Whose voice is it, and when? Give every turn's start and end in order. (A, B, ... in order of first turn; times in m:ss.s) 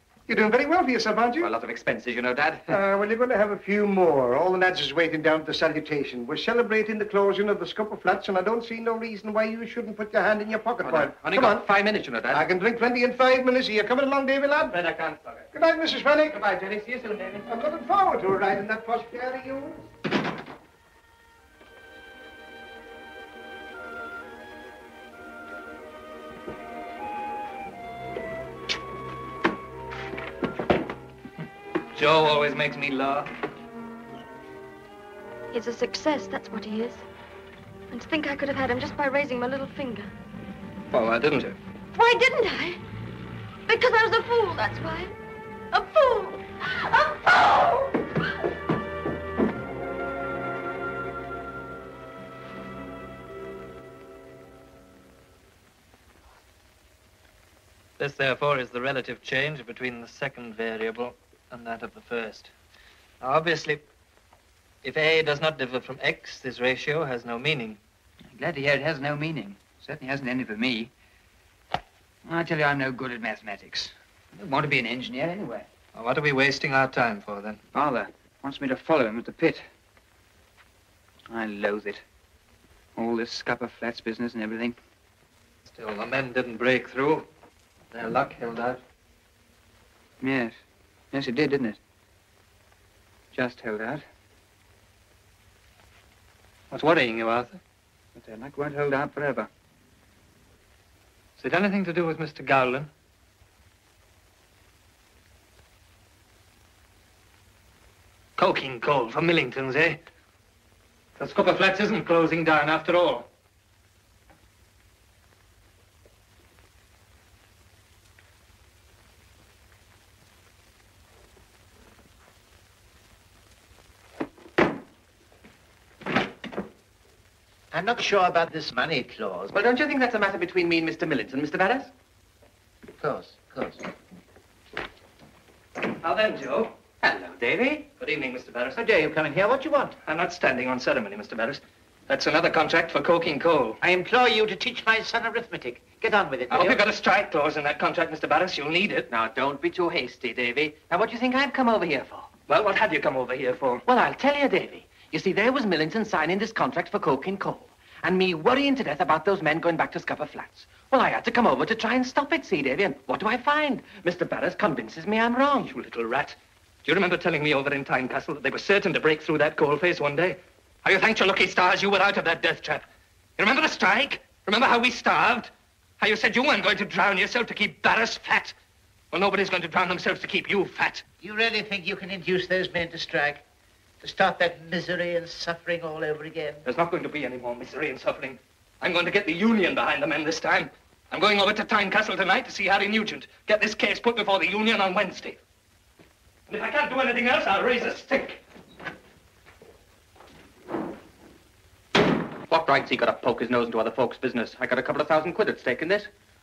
0:00.3-0:01.5 A
0:01.4-0:02.8 B
0:02.7-0:11.7 A
0:10.8-0:12.4 B
0:12.3-0:14.8 A
0:14.7-0:15.5 C
0:15.5-0:16.4 A
0:16.4-0:17.4 C
0:17.5-0:19.9 A
0:32.0-0:33.3 C
0:36.3-0:37.0 D
0:38.0-0:40.1 D
0:40.9-0:41.6 C
0:42.0-0:42.8 D
0:43.7-0:45.1 D
0:45.7-0:47.9 D
0:58.0-1:02.5 C
1:03.2-1:03.8 C
1:04.8-1:07.8 C
1:08.3-1:10.9 E
1:12.2-1:15.6 E
1:15.9-1:17.6 C
1:17.7-1:19.7 E
1:21.3-1:22.0 E
1:23.0-1:24.8 E
1:25.7-1:27.3 C
1:27.9-1:28.8 C
1:30.2-1:30.6 E
1:31.1-1:31.8 E
1:33.3-1:34.0 E
1:36.7-1:37.6 C
1:38.2-1:39.5 E
1:41.4-1:42.9 C
1:48.4-1:50.0 C
1:51.2-1:53.3 C
2:07.7-2:09.5 F
2:09.5-2:11.9 B
2:13.0-2:13.8 F
2:16.0-2:16.7 C
2:17.0-2:17.8 B
2:18.0-2:18.8 C
2:18.8-2:19.9 F
2:20.0-2:23.8 C
2:23.8-2:26.8 F
2:26.5-2:29.1 C
2:29.1-2:32.3 B
2:32.5-2:33.8 C
2:33.9-2:45.7 B
2:45.6-2:52.8 C
2:53.4-2:58.6 C
2:59.1-3:01.0 C
3:01.2-3:03.4 F
3:04.0-3:06.6 F
3:06.6-3:15.4 C
3:16.5-3:18.4 C
3:22.5-3:26.1 B